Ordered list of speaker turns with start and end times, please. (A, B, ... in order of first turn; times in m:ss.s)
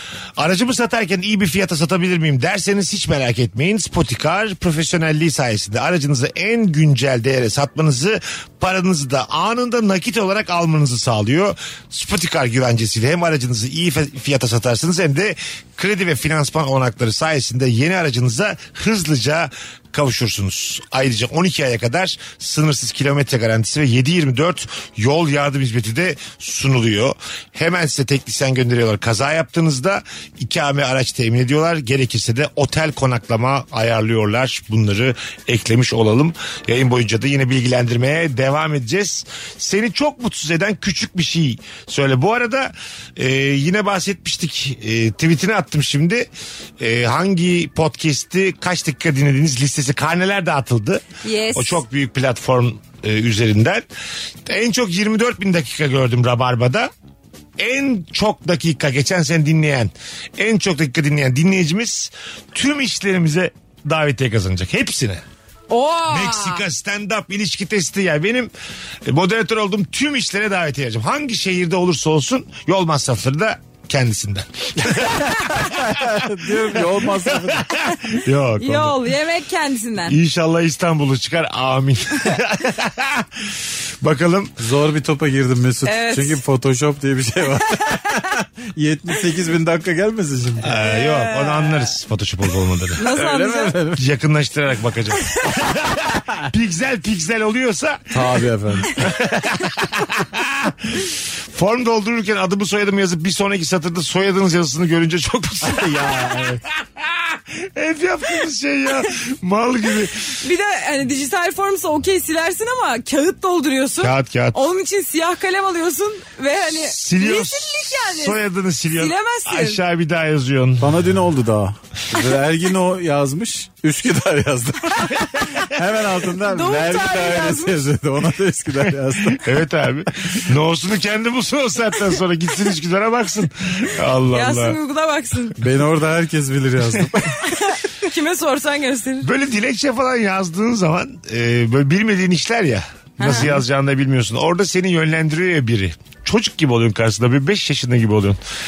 0:00.4-0:46.3 A
0:46.8-0:51.0 A
0:51.2-0:51.8 B
0:51.5-0:53.8 A
0:54.4-0:56.9 A
0:57.6-1:05.2 A
1:05.7-1:06.6 B
1:06.1-1:08.5 A
1:09.0-1:16.2 A
1:14.8-1:17.7 C
1:16.8-1:19.0 A
1:18.6-1:20.2 B
1:20.0-1:23.5 A
1:24.0-1:24.5 A
1:24.6-1:30.7 C
1:25.8-1:26.4 B
1:30.6-1:33.2 A
1:30.7-1:31.9 B
1:33.0-1:33.7 B
1:33.0-1:34.0 C
1:34.0-1:38.2 A
1:38.1-1:38.9 C
1:38.9-1:50.3 A
1:45.6-1:46.6 C
1:50.4-1:58.4 B
1:54.0-1:54.6 A
1:56.7-2:00.9 A
1:58.9-1:59.8 B
2:00.8-2:09.4 C
2:06.5-2:07.8 B
2:09.3-2:14.8 A
2:14.3-2:15.6 B
2:15.6-2:17.3 C
2:17.4-2:19.3 B
2:19.2-2:28.4 A
2:23.2-2:23.5 B